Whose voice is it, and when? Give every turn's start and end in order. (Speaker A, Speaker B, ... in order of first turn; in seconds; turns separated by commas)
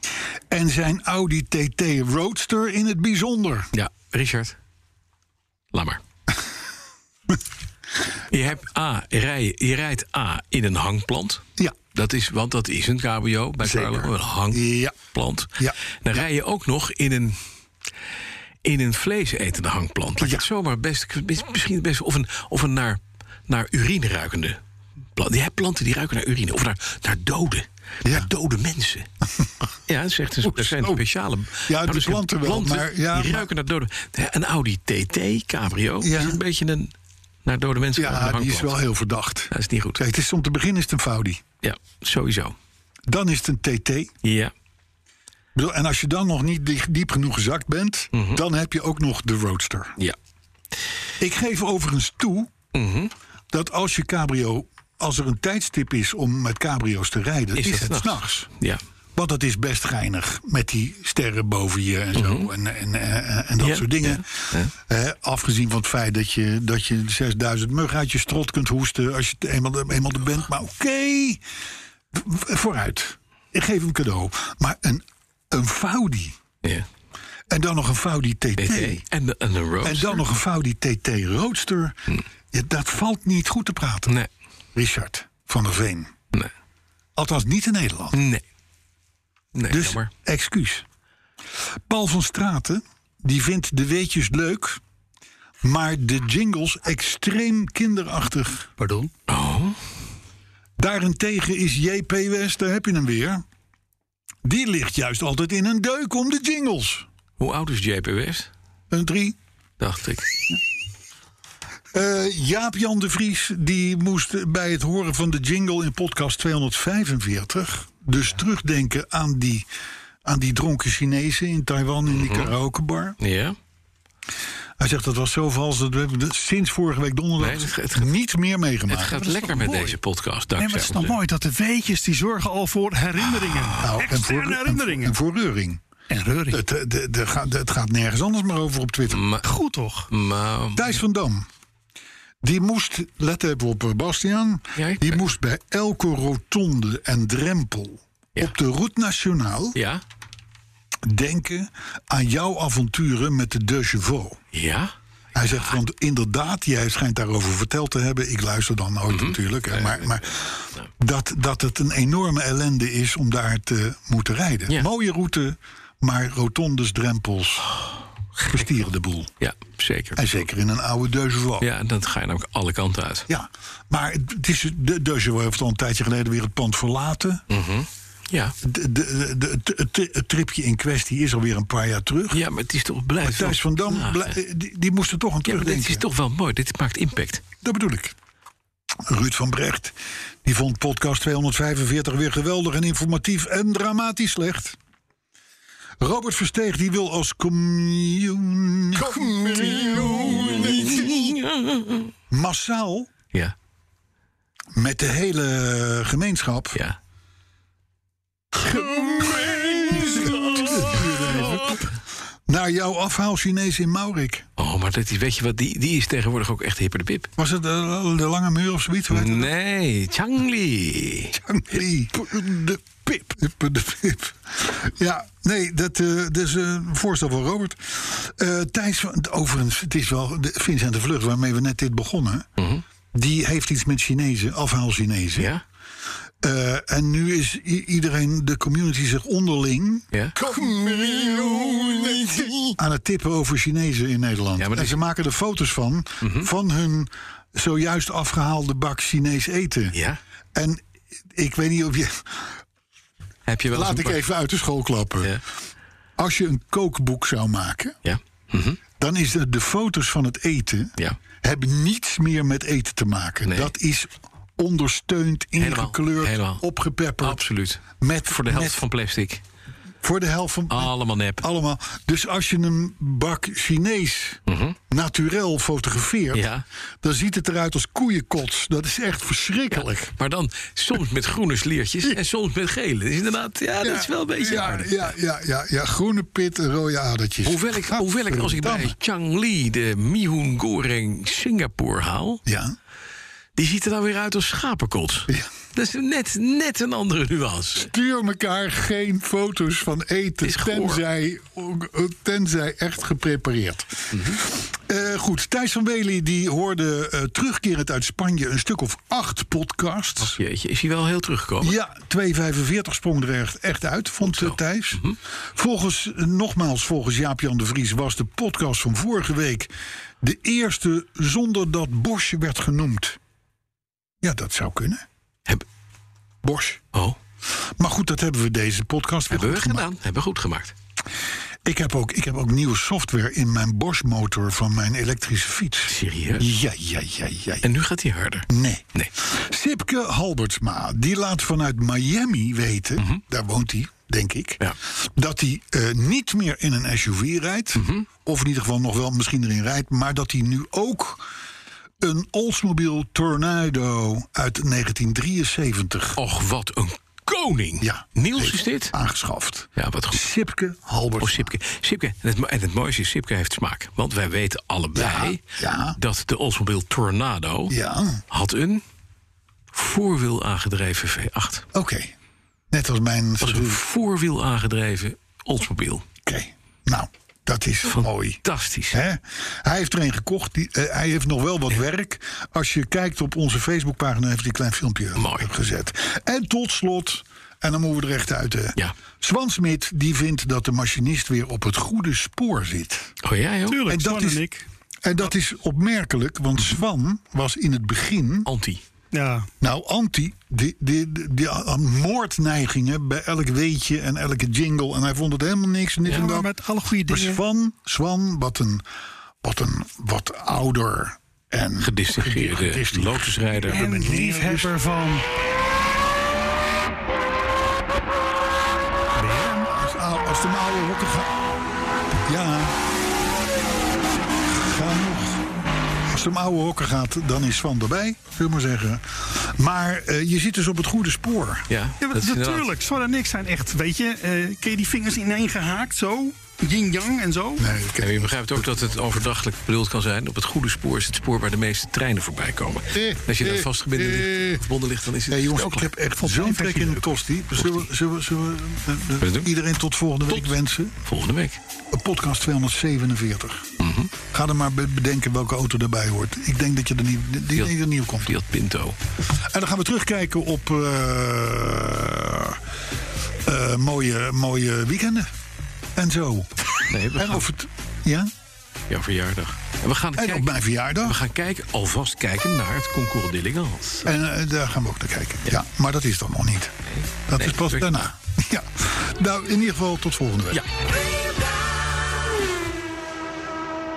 Speaker A: 0.5-3.7, Speaker B: 3.7-4.6, Speaker B: 5.7-6.0, Speaker B: 8.3-17.4, Speaker A: 13.6-15.0, Speaker A: 15.6-16.2, Speaker B: 18.6-24.6, Speaker A: 20.2-20.5, Speaker B: 25.2-29.1, Speaker A: 28.1-28.3, Speaker B: 29.9-36.9, Speaker A: 30.4-31.0, Speaker A: 31.7-33.5, Speaker A: 36.0-36.4, Speaker B: 37.5-38.8, Speaker A: 38.0-41.4, Speaker B: 39.5-40.0, Speaker B: 41.6-42.5, Speaker A: 43.1-44.1, Speaker B: 44.2-44.5, Speaker A: 45.5-50.0, Speaker B: 48.1-48.4, Speaker A: 51.2-52.5, Speaker B: 52.7-53.1, Speaker A: 53.5-58.5, Speaker B: 57.6-58.8, Speaker A: 59.2-71.4, Speaker B: 62.1-62.5, Speaker B: 63.6-64.7, Speaker A: 72.1-76.4, Speaker A: 77.5-79.0, Speaker B: 78.6-80.2, Speaker A: 79.8-84.2, Speaker A: 84.8-86.1, Speaker A: 87.2-88.2, Speaker B: 88.1-88.4, Speaker B: 89.5-90.1, Speaker A: 89.7-90.8, Speaker A: 91.9-94.8, Speaker A: 95.6-98.7, Speaker C: 98.8-99.1, Speaker B: 99.3-99.8, Speaker A: 100.8-103.4, Speaker A: 104.4-107.1, Speaker B: 107.4-108.5, Speaker A: 108.9-109.4, Speaker B: 109.8-110.3, Speaker A: 111.9-119.7, Speaker A: 120.2-123.2, Speaker B: 122.1-122.5, Speaker B: 123.2-123.6, Speaker A: 124.8-129.2, Speaker B: 127.4-128.1, Speaker B: 128.9-131.2, Speaker C: 129.0-130.0, Speaker C: 130.6-135.2, Speaker B: 133.5-133.9, Speaker A: 133.8-135.8, Speaker C: 136.1-136.6, Speaker A: 136.5-139.2, Speaker B: 139.1-139.5, Speaker C: 139.4-140.1, Speaker B: 140.1-140.9, Speaker A: 140.8-141.5, Speaker A: 142.4-149.8, Speaker B: 144.8-145.3, Speaker B: 149.8-150.0, Speaker A: 151.1-154.4, Speaker B: 154.5-155.8, Speaker A: 155.3-167.7, Speaker B: 159.1-160.8, Speaker A: 168.5-169.3, Speaker B: 169.4-170.3, Speaker A: 170.2-171.7, Speaker B: 171.6-173.3, Speaker A: 173.3-177.4, Speaker B: 177.5-178.6, Speaker A: 178.6-182.4, Speaker B: 182.3-184.4, Speaker A: 183.2-186.0, Speaker B: 185.4-187.4, Speaker A: 187.6-188.2, Speaker A: 189.1-194.8, Speaker A: 196.0-201.4, Speaker B: 199.1-202.1, Speaker A: 202.3-203.1, Speaker A: 204.8-206.8, Speaker B: 208.6-211.9, Speaker A: 208.6-211.9, Speaker A: 212.5-214.5, Speaker B: 214.6-217.3, Speaker A: 217.4-219.5, Speaker B: 219.1-221.3, Speaker A: 221.3-232.5, Speaker B: 232.6-232.8, Speaker A: 233.1-235.5, Speaker B: 235.4-235.6, Speaker A: 236.4-250.0, Speaker B: 242.4-242.6, Speaker B: 244.6-244.9, Speaker B: 246.2-246.5, Speaker B: 249.9-250.2, Speaker A: 250.5-252.5, Speaker B: 253.5-254.2, Speaker A: 253.7-255.4, Speaker A: 256.2-257.9, Speaker B: 258.1-258.8, Speaker A: 259.0-267.4, Speaker B: 263.5-263.7, Speaker B: 265.6-266.6, Speaker B: 267.2-269.4, Speaker A: 268.0-268.8, Speaker A: 270.0-276.4, Speaker B: 270.7-271.4, Speaker B: 274.5-274.8, Speaker B: 276.3-276.6, Speaker A: 277.0-280.1, Speaker B: 279.8-285.1, Speaker A: 283.8-288.9, Speaker B: 287.4-292.4, Speaker A: 292.5-292.8, Speaker B: 293.6-297.9, Speaker A: 297.8-310.4, Speaker B: 300.4-301.0, Speaker B: 304.1-304.4, Speaker B: 310.2-311.8, Speaker A: 311.6-315.0, Speaker B: 314.3-315.2, Speaker A: 315.6-323.2, Speaker A: 324.2-325.0, Speaker A: 326.4-326.8, Speaker A: 327.8-329.9, Speaker B: 329.3-330.8, Speaker A: 331.6-337.7, Speaker B: 335.9-336.5, Speaker B: 337.6-339.1, Speaker A: 338.5-351.3, Speaker B: 347.8-348.1, Speaker A: 352.0-356.2, Speaker B: 356.2-358.9, Speaker A: 357.8-361.6, Speaker B: 359.8-360.3, Speaker B: 361.2-365.4, Speaker A: 364.9-366.0, Speaker B: 366.0-367.8, Speaker A: 367.7-368.2, Speaker B: 368.3-368.8, Speaker B: 369.7-371.7, Speaker A: 371.7-372.1, Speaker A: 372.7-373.8, Speaker B: 373.4-376.1, Speaker A: 376.2-393.1, Speaker B: 377.9-379.0, Speaker B: 385.2-385.5, Speaker B: 393.2-393.9, Speaker C: 393.7-394.7, Speaker A: 393.9-394.4, Speaker A: 395.0-398.5, Speaker B: 398.5-398.8, Speaker C: 399.1-399.5, Speaker A: 399.6-408.8, Speaker C: 406.0-407.4, Speaker A: 409.4-414.8, Speaker B: 411.8-414.0, Speaker C: 413.7-415.2, Speaker C: 419.1-419.7, Speaker A: 419.7-421.3, Speaker A: 422.3-422.8, Speaker A: 424.5-425.5, Speaker A: 426.1-431.7, Speaker B: 431.7-432.7, Speaker C: 432.0-437.6, Speaker A: 437.6-438.7, Speaker B: 438.0-445.9, Speaker A: 442.9-444.6, Speaker A: 445.3-451.0, Speaker C: 446.2-447.0, Speaker B: 447.6-447.9, Speaker B: 449.2-449.5, Speaker B: 450.3-451.6, Speaker A: 451.9-453.7, Speaker B: 453.8-454.1, Speaker A: 454.3-458.3, Speaker B: 458.2-459.0, Speaker A: 459.3-462.6, Speaker A: 463.4-465.3, Speaker A: 466.0-468.3, Speaker B: 466.8-467.5, Speaker B: 468.9-474.1, Speaker A: 470.1-471.2, Speaker A: 474.1-476.8, Speaker B: 476.9-478.0, Speaker A: 477.3-480.6